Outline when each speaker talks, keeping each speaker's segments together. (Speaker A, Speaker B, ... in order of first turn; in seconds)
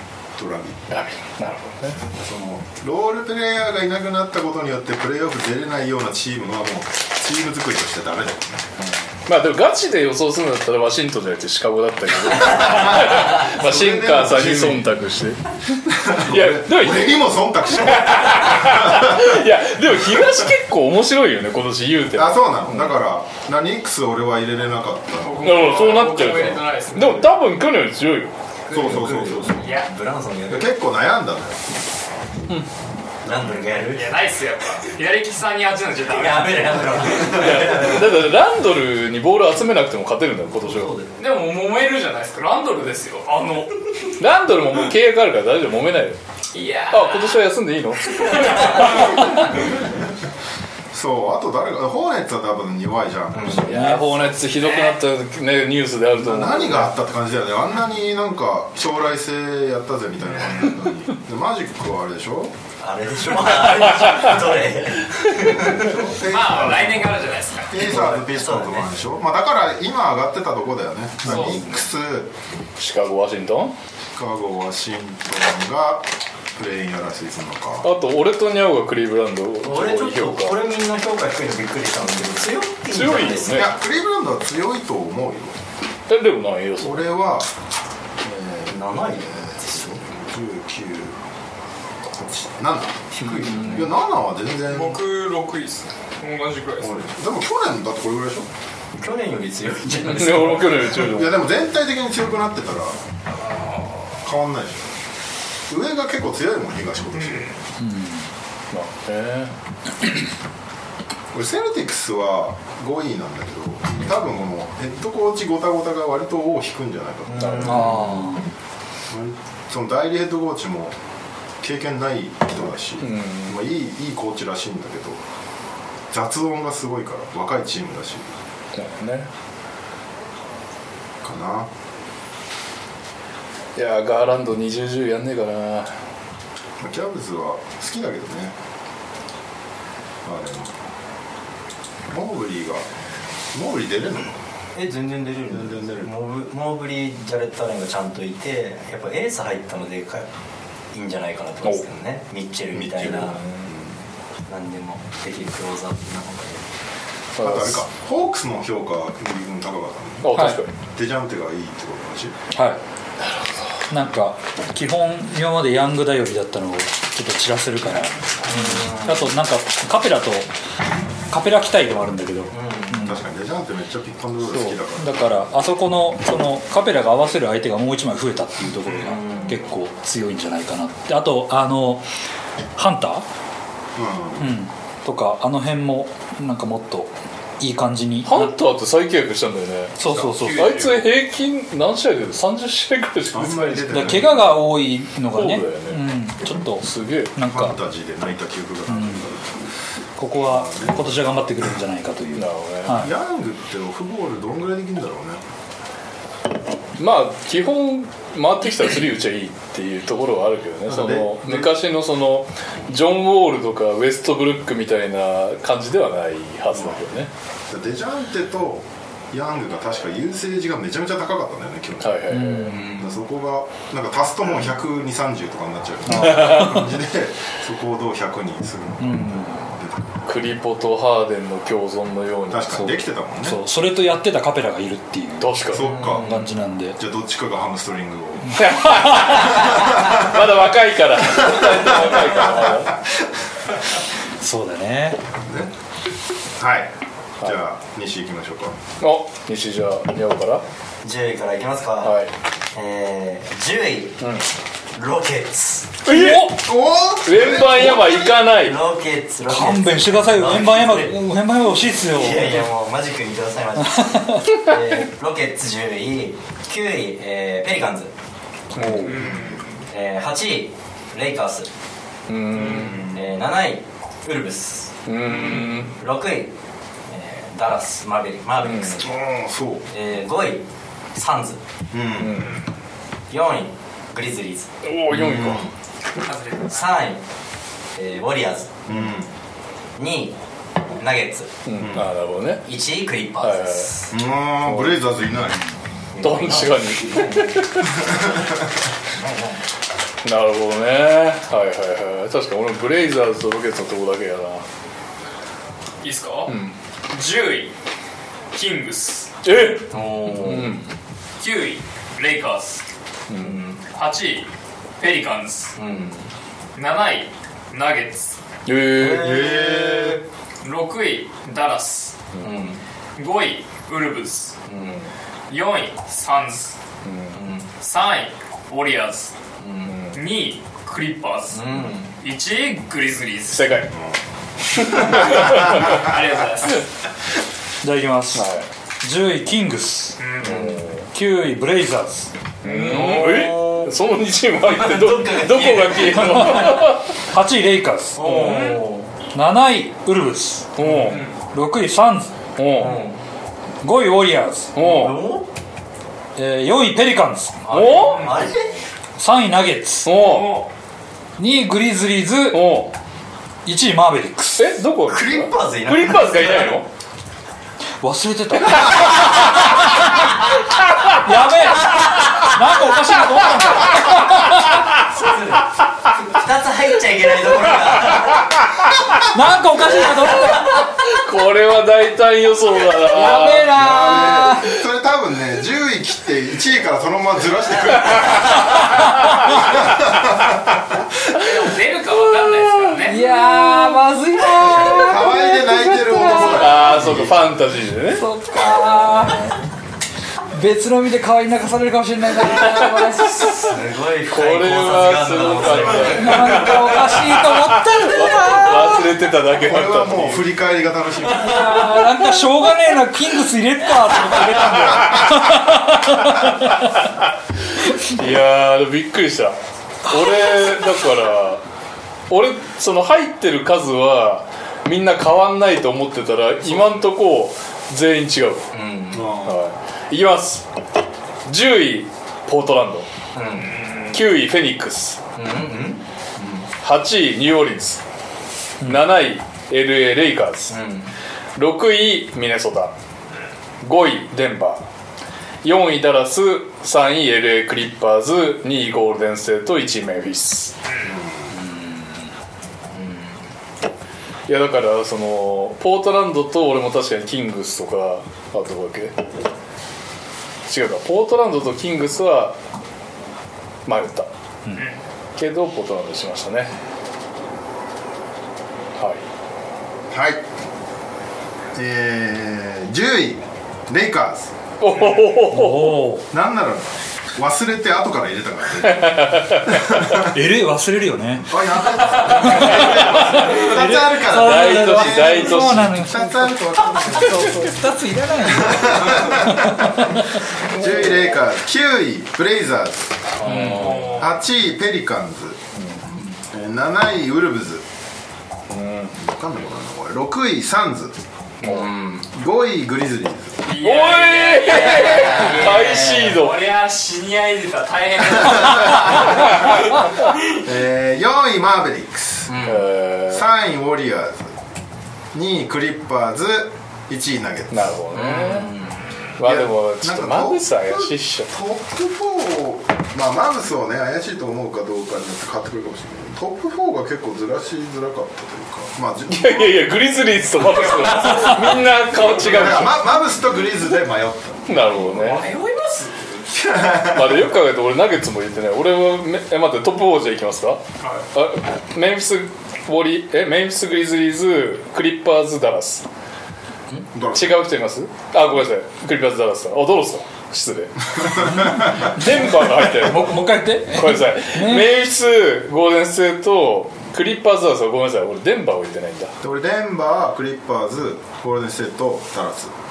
Speaker A: 0.4-0.8, 2.0-8.6, 12.7-14.9, 15.8-19.3, 22.1-25.8, 28.7-29.7, 30.5-31.7, 50.9-54.1, 56.2-62.5, 65.8-72.3, 74.2-77.9, 83.5-85.6, 86.8-87.5, 88.2-91.2, 92.1-95.0, 96.8-98.5, 100.9-103.0, 104.2-104.9, 105.7-107.5, 111.3-118.3, 119.1-121.0, 121.6-125.2, 126.1-128.3, 131.2-131.7, 136.8-138.6, 140.2-140.7, 142.1-142.9, 143.5-144.3, 145.5-146.1, 152.7-153.9, 157.4-160.3, 160.8-162.3, 172.9-175.3, 183.9-184.5, 193.3-194.5, 197.4-199.6, 200.4-201.1, 202.9-205.4, 210.9-211.7, 216.7-217.1, 217.7-222.3, 222.9-230.2, 232.5-233.6, 235.7-236.4, 237.0-240.2, 241.4-242.9, 245.5-245.7, 246.6-248.8, 256.5-258.2, 279.0-279.9, 281.9-282.4, 285.1-285.7, 288.9-289.3, 291.8-292.1, 294.1-295.6, 319.2-319.6, 383.7-388.5, 389.5-390.6, 394.8-397.5, 409.6-412.0, 429.1-429.6, 451.0-451.5, 470.1-470.4, 471.7-474.5, 476.3-480.3, 481.4-487.7, 488.5-495.6, 496.4-497.8, 499.1-501.1, 502.3-503.6, 510.4-512.6, 513.3-514.5, 515.3-517.9, 519.4-529.7, 532.4-534.7, 536.5-537.4, 547.1-547.5, 551.5-552.1, 559.4-562.7
Speaker B: 0.9-2.0, 8.8-17.2, 17.9-22.9, 25.4-28.3, 37.3-40.9, 44.2-46.2, 46.9-49.5, 53.7-56.9, 72.8-73.7, 77.8-80.7, 82.9-83.7, 86.1-87.1, 93.4-93.9, 99.9-101.4, 108.7-109.5, 117.4-118.0, 123.0-123.6, 128.7-129.3, 133.8-135.9, 153.1-153.7, 157.3-157.8, 160.2-160.7, 163.2-163.9, 188.2-194.5, 195.3-196.0, 196.8-197.3, 202.3-203.1, 207.0-217.3, 222.0-222.9, 230.2-232.9, 235.4-236.1, 238.6-243.0, 249.0-250.6, 252.0-252.3, 256.0-256.7, 257.2-258.8, 268.8-269.2, 272.3-273.1, 275.1-275.9, 282.2-282.5, 284.8-285.7, 291.6-292.7, 293.4-293.9, 294.7-295.0, 296.2-298.0, 300.2-304.6, 306.5-306.7, 309.4-310.9, 313.3-313.6, 318.6-320.1, 327.1-327.3, 333.5-333.9, 334.9-336.1, 338.3-338.7, 340.4-341.1, 342.6-347.1, 348.2-348.7, 350.8-351.3, 352.6-353.1, 354.7-355.2, 357.7-358.5, 360.0-360.6, 362.5-362.9, 364.6-366.9, 381.1-383.7, 392.4-392.9, 396.4-398.2, 404.2-410.5, 415.1-415.7, 416.4-417.3, 417.9-421.6, 422.3-428.7, 429.4-430.6, 431.4-433.1, 434.1-435.2, 436.8-438.0, 438.8-440.8, 441.6-442.9, 443.8-444.8, 445.6-450.8, 454.5-459.2, 460.7-462.6, 463.9-464.3, 465.4-466.7, 469.0-469.2, 474.8-476.1, 478.8-480.2, 482.5-485.9, 493.4-494.2, 498.7-499.1, 501.6-501.9, 503.8-506.6, 512.6-513.5, 517.7-518.7, 519.4-521.5, 529.3-533.1, 534.7-535.4, 537.0-540.8, 541.3-546.0, 547.3-559.3
Speaker C: 25.2-27.3, 29.6-29.9, 33.9-37.1, 41.2-44.1, 46.5-47.4, 48.3-49.3, 66.2-67.9, 71.2-71.6, 94.7-97.0, 103.4-104.1, 107.2-107.6, 190.1-191.0, 269.0-269.7, 282.4-282.7, 286.2-286.9, 306.0-306.5, 307.1-307.7, 308.5-309.3, 311.4-312.8, 313.8-315.7, 316.7-318.4, 320.6-322.2, 323.1-324.6, 325.5-326.8, 327.8-329.3, 330.1-331.6, 332.2-333.8, 335.2-336.9, 340.2-340.7, 348.3-348.9, 360.1-360.7, 391.4-393.3, 433.6-434.1, 450.9-451.1, 493.6-494.3, 503.6-505.7, 506.3-510.3, 530.6-531.7, 535.2-536.5, 541.0-541.3
Speaker D: 28.7-30.7, 33.2-34.1, 36.1-38.2, 40.6-41.1, 53.3-54.9, 62.8-66.1, 67.8-68.9, 79.6-83.7, 88.7-90.0, 98.9-100.9, 144.7-150.3, 150.9-153.4, 154.5-156.7, 168.4-169.2, 172.5-173.0, 179.0-179.6, 222.7-223.0, 235.9-236.2, 251.0-252.2, 252.7-254.2, 254.9-256.0, 257.9-261.2, 262.1-268.1, 269.9-271.7, 272.5-276.5, 277.1-279.1, 279.9-281.6, 283.3-284.7, 286.7-287.2, 287.9-289.0, 290.0-290.4, 290.9-291.5, 292.6-294.1, 296.1-299.6, 309.9-310.8, 313.4-313.8, 315.8-316.3, 318.9-320.2, 322.4-322.8, 324.7-325.1, 327.3-327.7, 329.6-330.0, 331.5-332.1, 340.5-340.8, 342.6-343.9, 344.6-346.9, 348.1-349.1, 350.8-351.2, 352.8-353.2, 354.8-355.5, 357.6-358.9, 365.1-366.8, 374.9-378.6, 379.9-380.8, 398.6-399.4, 403.5-407.0, 428.7-429.3, 433.3-433.9, 435.4-436.6, 440.7-441.1, 452.9-453.4, 501.6-502.3, 504.7-506.4, 512.5-512.9, 518.1-519.1, 534.8-535.6
Speaker E: 53.7-54.0, 107.8-108.2, 117.6-118.4, 160.3-160.6, 162.5-162.8, 163.9-170.5, 171.3-173.2, 174.5-182.0, 182.8-183.2, 184.4-188.5, 190.0-190.7, 193.9-197.8, 198.9-199.2, 200.2-203.1, 222.3-222.9, 226.1-226.9, 229.0-229.5, 232.8-235.6, 236.2-237.0, 244.4-245.2, 256.1-256.6, 259.5-262.6, 264.0-264.4, 268.8-269.2, 337.8-338.5, 339.0-340.2, 341.1-342.3, 347.2-348.5, 349.3-352.3, 353.8-354.7, 356.4-357.6, 359.2-360.1, 361.4-362.7, 363.6-364.7, 368.0-369.1, 369.9-370.4, 371.2-374.6, 379.3-380.9, 383.0-384.8, 393.1-396.7, 398.2-399.6, 400.5-403.7, 406.1-409.0, 411.3-416.7, 475.5-476.2, 480.2-481.6, 482.5-490.2, 552.8-554.9